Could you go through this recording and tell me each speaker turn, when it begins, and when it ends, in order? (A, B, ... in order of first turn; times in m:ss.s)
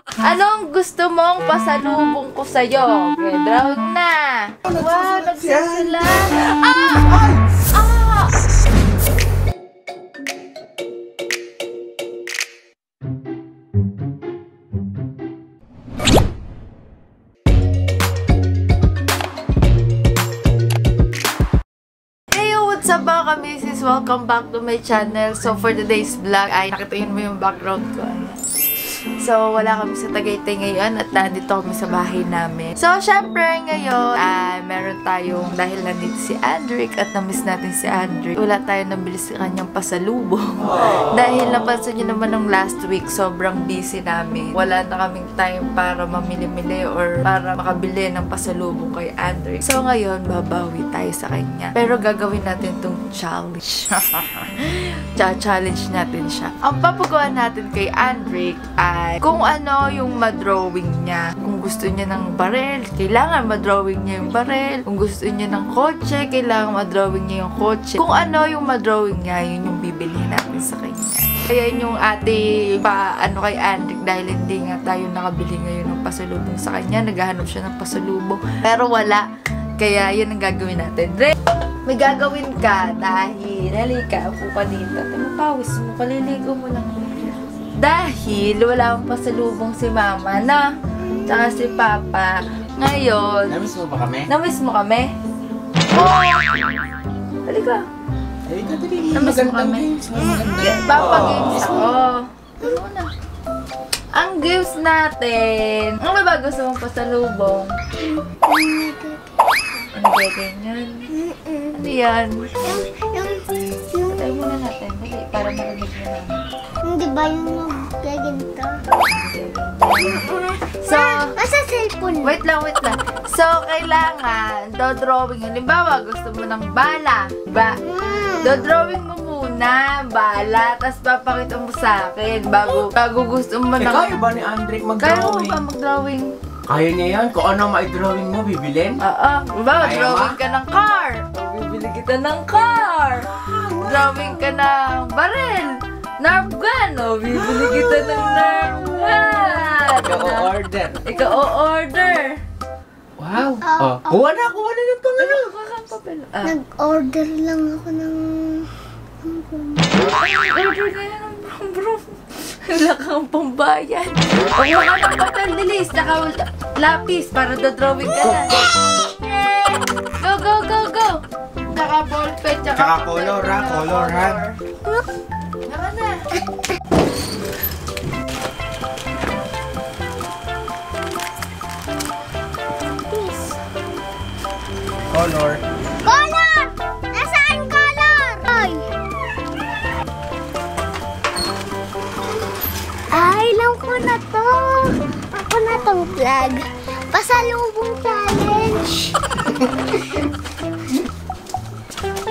0:00.2-0:08.4 A
0:04.7-0:06.2 B
0:06.8-0:07.5 B
0:22.3-0:28.4 A
0:29.2-1:19.3 A
1:19.8-1:21.4 A
1:21.9-1:30.7 A
1:31.2-1:33.6 A
1:33.5-1:34.3 B
1:34.3-1:35.1 A
1:35.9-1:36.5 A
1:37.5-1:37.8 A
1:38.5-1:41.9 B
1:39.1-1:39.9 A
1:40.5-1:43.1 A
1:44.1-1:47.7 A
1:48.0-1:49.9 C
1:49.9-1:51.0 A
1:51.1-1:51.8 C
1:51.8-1:52.5 A
1:52.6-1:54.4 C
1:54.0-1:56.4 A
1:56.8-1:58.8 C
1:59.0-2:00.2 A
2:00.0-2:02.4 C
2:00.8-2:01.3 A
2:02.2-2:07.8 A
2:07.8-2:08.7 C
2:08.4-2:14.2 A
2:12.6-2:12.9 B
2:13.8-2:15.6 B
2:15.0-2:16.3 A
2:16.7-2:19.0 B
2:19.0-2:23.3 A
2:19.8-2:20.4 B
2:21.4-2:21.9 B
2:23.3-2:23.8 B
2:23.8-2:30.5 A
2:30.0-2:31.1 B
2:31.0-2:32.4 A
2:33.2-2:35.5 B
2:33.6-2:34.1 C
2:35.2-2:36.6 A
2:36.4-2:38.7 C
2:39.2-2:40.0 C
2:40.0-2:48.6 A
2:48.5-2:49.8 C
2:50.2-2:54.6 A
2:52.8-2:54.4 B
2:55.6-2:56.2 A
3:03.0-3:03.6 C
3:05.1-3:05.6 B
3:06.0-3:08.9 C
3:13.1-3:19.2 C
3:20.0-3:20.2 C